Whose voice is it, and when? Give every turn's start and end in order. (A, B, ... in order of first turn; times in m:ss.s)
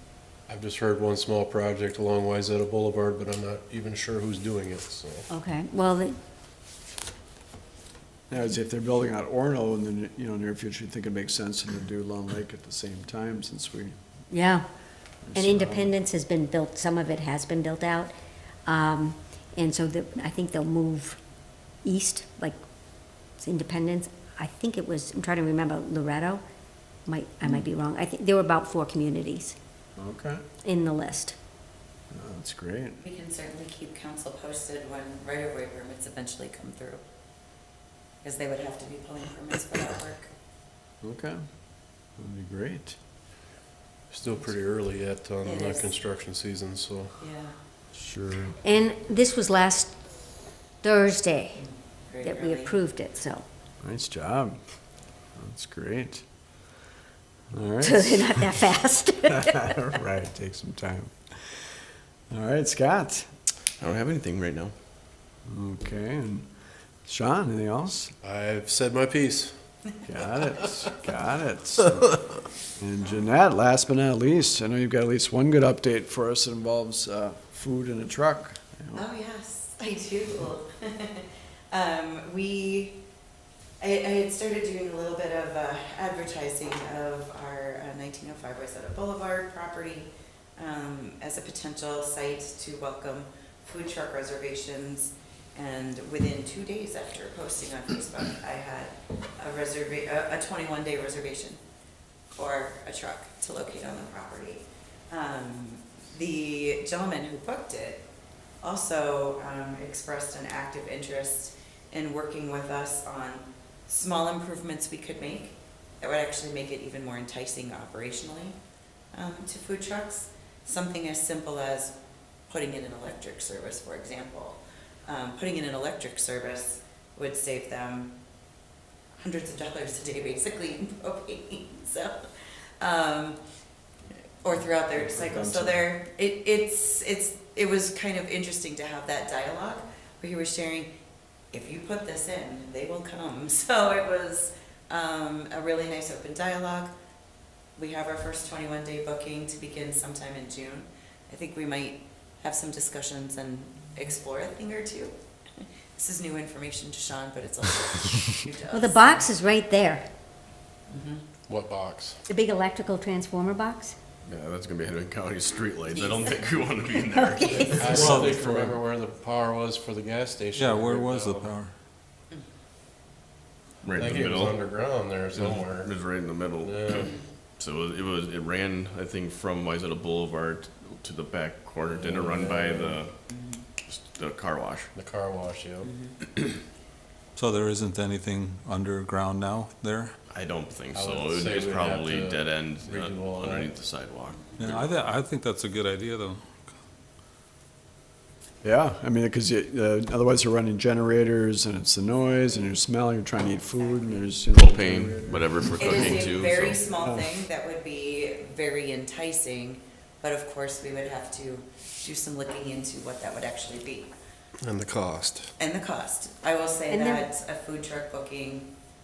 0:00.5-0:05.2 A
0:05.3-0:06.2 B
0:08.3-0:13.9 C
0:14.3-0:14.6 B
0:15.2-0:15.9 C
0:15.3-0:18.1 B
0:18.6-0:21.2 B
0:21.8-0:22.6 B
0:23.4-0:26.4 B
0:27.1-0:29.6 B
0:30.0-0:30.4 C
0:30.6-0:31.4 B
0:32.1-0:33.0 C
0:33.0-0:37.0 D
0:38.2-0:40.3 D
0:41.0-0:41.4 C
0:42.0-0:43.0 C
0:44.1-0:47.1 A
0:45.4-0:45.9 D
0:47.2-0:47.5 D
0:47.9-0:48.6 C
0:48.6-0:49.9 B
0:50.8-0:51.6 B
0:51.6-0:52.8 D
0:52.2-0:53.4 B
0:53.8-0:54.6 C
0:55.4-0:56.2 C
0:57.5-0:58.6 C
0:57.8-0:59.7 B
0:59.3-1:01.6 C
1:02.3-1:03.3 C
1:03.8-1:04.7 E
1:05.4-1:06.5 C
1:07.0-1:08.1 C
1:08.2-1:09.5 A
1:10.0-1:12.2 C
1:12.8-1:19.0 C
1:18.9-1:23.0 D
1:23.8-1:41.6 D
1:42.3-1:48.0 D
1:48.6-1:58.6 D
1:59.1-2:01.9 D
2:02.5-2:08.1 D
2:09.2-2:12.2 D
2:12.8-2:13.4 D
2:14.4-2:20.9 D
2:15.0-2:15.8 C
2:21.5-2:26.9 D
2:27.8-2:35.1 D
2:36.0-2:39.2 D
2:38.7-2:40.0 B
2:40.9-2:41.3 D
2:41.5-2:42.2 A
2:42.3-2:43.9 B
2:44.2-2:48.0 E
2:45.9-2:46.4 D
2:47.2-2:48.2 B
2:47.7-2:51.5 A
2:47.8-2:48.8 F
2:50.5-2:51.7 F
2:53.8-2:54.6 E
2:54.0-2:55.9 A
2:55.4-3:03.1 E
2:56.6-2:57.1 A
3:02.1-3:03.0 A
3:03.3-3:03.6 D
3:03.8-3:04.9 E
3:04.9-3:05.9 A
3:05.8-3:06.2 D
3:07.4-3:10.1 F
3:10.3-3:15.0 E
3:10.9-3:13.7 A
3:14.6-3:16.4 F
3:18.6-3:27.4 C
3:23.8-3:24.3 D
3:24.5-3:26.9 E
3:25.8-3:34.1 D
3:34.6-3:35.5 A
3:35.6-3:38.7 D
3:36.9-3:37.2 B